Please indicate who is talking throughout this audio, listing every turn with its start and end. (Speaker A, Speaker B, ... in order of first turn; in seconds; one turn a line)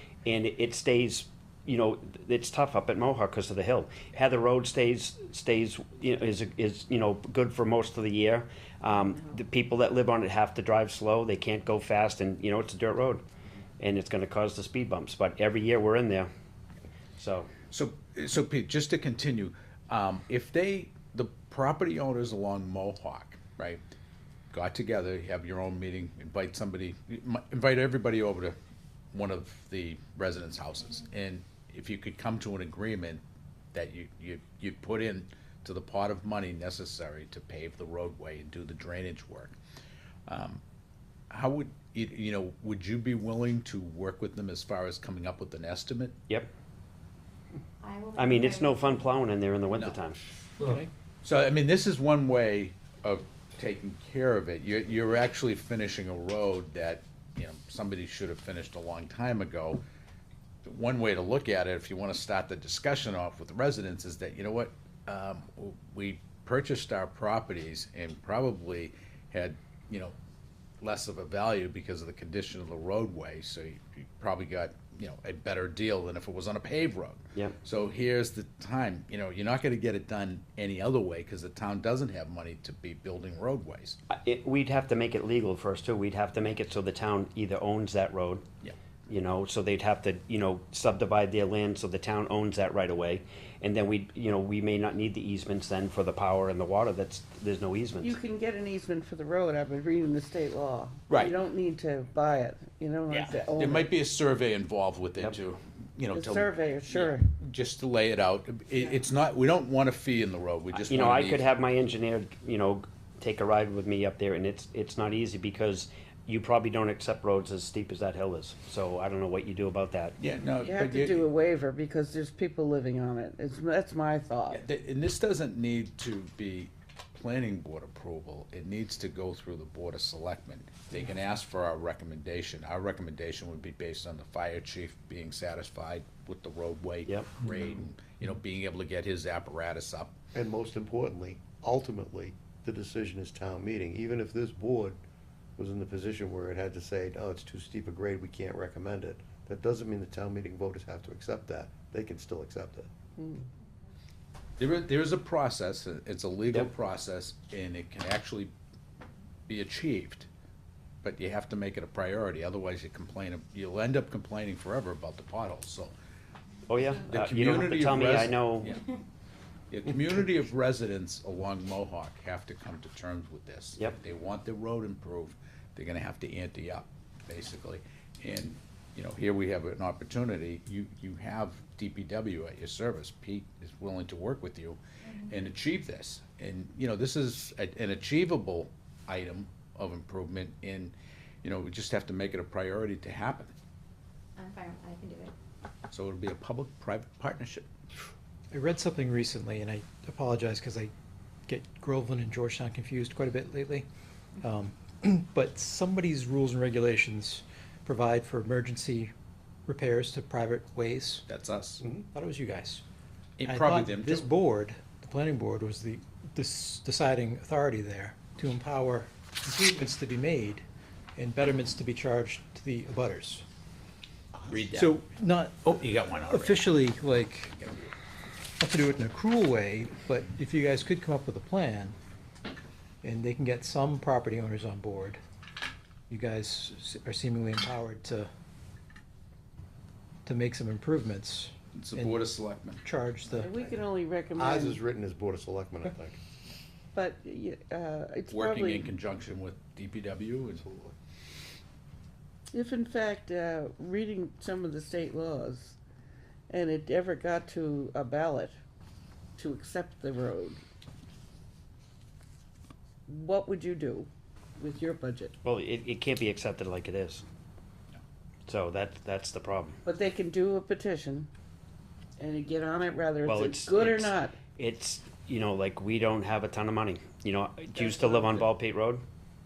Speaker A: 0.2-13.2
Speaker A: 13.8-16.3
Speaker A: 17.2-17.5
Speaker B: 17.7-23.8
Speaker B: 24.5-28.6
Speaker B: 29.1-33.2
Speaker B: 33.7-39.6
Speaker B: 40.3-40.6
Speaker B: 41.3-46.2
Speaker C: 47.8-49.1
Speaker A: 48.1-50.3
Speaker B: 51.2-59.8
Speaker B: 60.7-70.2
Speaker B: 70.8-84.0
Speaker A: 84.1-88.5
Speaker A: 89.1-98.2
Speaker D: 98.0-103.9
Speaker B: 101.1-101.3
Speaker B: 103.1-111.5
Speaker D: 106.2-107.2
Speaker A: 110.8-120.2
Speaker B: 120.2-121.3
Speaker D: 120.6-124.6
Speaker B: 124.5-140.2
Speaker E: 140.3-145.0
Speaker E: 145.6-152.9
Speaker B: 154.6-158.5
Speaker B: 159.5-160.3
Speaker B: 161.0-165.9
Speaker A: 166.7-168.7
Speaker B: 167.0-168.9
Speaker B: 169.7-193.5
Speaker C: 194.4-195.3
Speaker B: 195.9-197.7
Speaker F: 201.6-203.8
Speaker F: 204.5-209.1
Speaker F: 209.7-211.2
Speaker B: 211.3-211.8
Speaker F: 212.2-212.8
Speaker B: 213.4-214.4
Speaker F: 213.7-220.6
Speaker F: 221.2-222.5
Speaker B: 224.3-227.7
Speaker F: 236.1-237.0
Speaker F: 237.7-238.2
Speaker F: 240.3-241.5
Speaker B: 241.8-242.8
Speaker D: 243.4-244.8
Speaker E: 244.3-246.2
Speaker D: 246.9-248.9
Speaker B: 248.3-250.9
Speaker D: 252.5-255.8
Speaker D: 256.5-258.6
Speaker D: 259.4-260.6
Speaker D: 263.1-265.3
Speaker A: 265.4-267.2
Speaker A: 268.5-269.8
Speaker D: 269.9-271.3
Speaker D: 272.2-274.4
Speaker A: 273.2-279.0
Speaker D: 277.8-278.5